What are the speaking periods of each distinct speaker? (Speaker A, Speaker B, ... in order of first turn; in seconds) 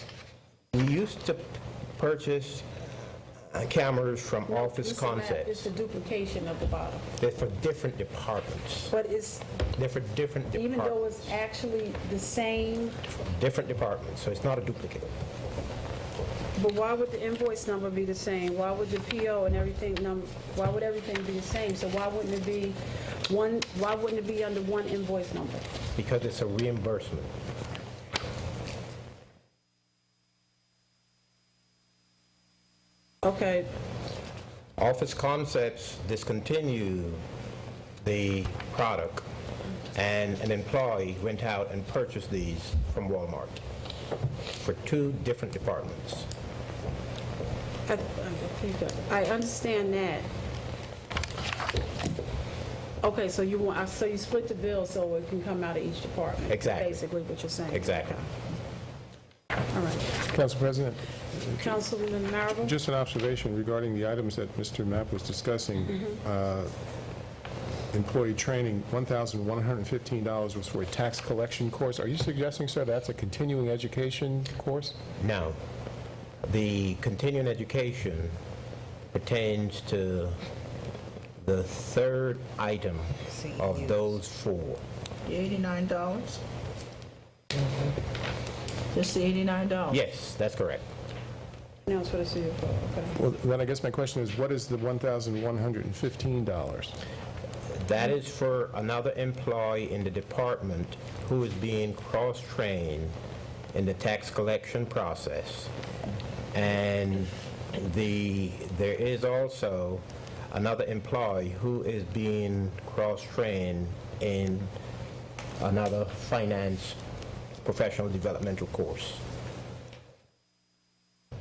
Speaker A: 0.7-2.7, 3.5-5.7, 7.2-8.9, 9.8-11.0, 13.2-15.1, 26.0-27.3, 34.8-37.2, 38.0-39.2, 39.9-43.6, 44.6-46.3, 56.5-57.0, 57.7-58.2, 75.2-75.6, 76.4-78.4, 79.1-80.4, 81.4-84.8, 89.9-90.8, 97.8-103.1, 103.7-105.7, 106.5-114.7, 115.6-117.0, 117.6-119.2
Speaker B: 4.5-7.1, 8.9-9.5, 10.5-13.0, 16.6-25.7, 33.2-33.7, 47.9-50.3, 53.0-58.3, 59.7-60.1, 61.6-62.7, 65.9-66.2, 91.9-93.2
Speaker C: 60.2-61.7, 62.6-66.7, 67.9-75.0, 93.2-97.0
Speaker D: 85.3-86.4, 88.9-90.0